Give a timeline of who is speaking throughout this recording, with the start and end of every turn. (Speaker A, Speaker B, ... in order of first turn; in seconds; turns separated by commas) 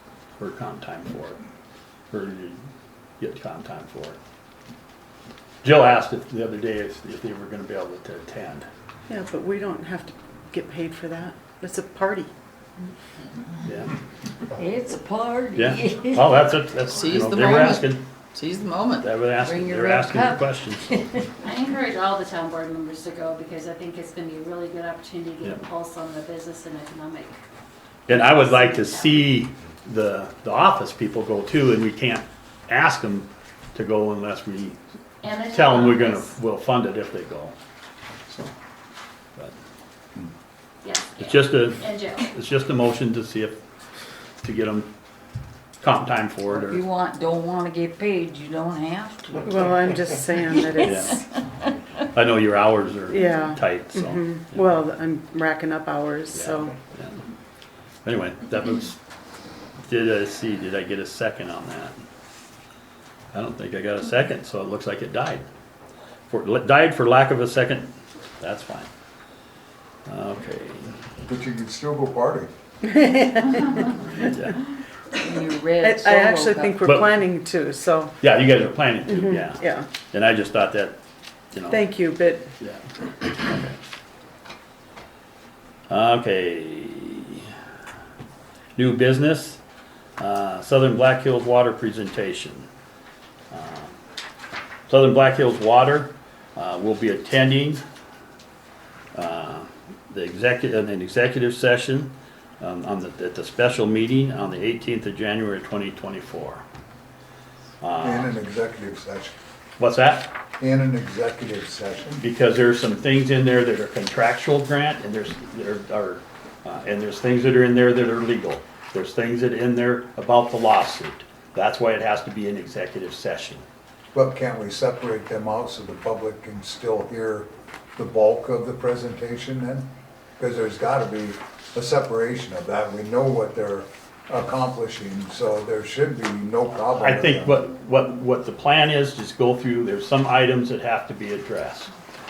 Speaker A: 0.4-1.4, Speaker A: 2.1-2.6, Speaker A: 3.2-4.2, Speaker A: 5.6-8.7, Speaker B: 9.1-12.3, Speaker A: 13.6-13.9, Speaker C: 14.5-21.3, Speaker A: 15.5-18.0, Speaker A: 19.0-20.9, Speaker D: 21.4-27.4, Speaker A: 28.1-34.8, Speaker D: 28.1-29.4, Speaker D: 35.2-36.4, Speaker A: 35.5-37.5, Speaker A: 38.3-38.5, Speaker D: 40.8-42.3, Speaker A: 41.2-43.6, Speaker A: 44.4-44.9, Speaker A: 45.8-46.8, Speaker C: 46.5-51.7, Speaker B: 49.4-51.2, Speaker A: 50.8-51.2, Speaker A: 52.0-54.7, Speaker B: 53.1-56.7, Speaker A: 56.3-57.2, Speaker A: 58.0-59.0, Speaker A: 59.9-62.0, Speaker A: 63.3-65.4, Speaker A: 66.3-68.9, Speaker A: 70.0-71.0, Speaker E: 71.2-72.5, Speaker B: 72.8-74.3, Speaker C: 73.5-74.0, Speaker A: 74.0-74.6, Speaker C: 75.2-76.8, Speaker B: 75.8-78.1, Speaker A: 76.8-77.2, Speaker A: 78.2-81.0, Speaker B: 79.1-79.9, Speaker A: 81.5-81.9, Speaker B: 81.7-82.5, Speaker A: 82.6-83.8, Speaker A: 85.9-87.5, Speaker A: 88.8-89.6, Speaker A: 90.2-92.7, Speaker A: 93.5-94.0, Speaker A: 94.9-97.8, Speaker A: 99.1-106.6, Speaker A: 107.8-108.3, Speaker E: 108.0-109.3, Speaker A: 109.8-110.3, Speaker E: 110.6-112.2, Speaker A: 112.2-123.6, Speaker E: 124.1-129.9, Speaker E: 130.4-137.6, Speaker A: 137.0-141.9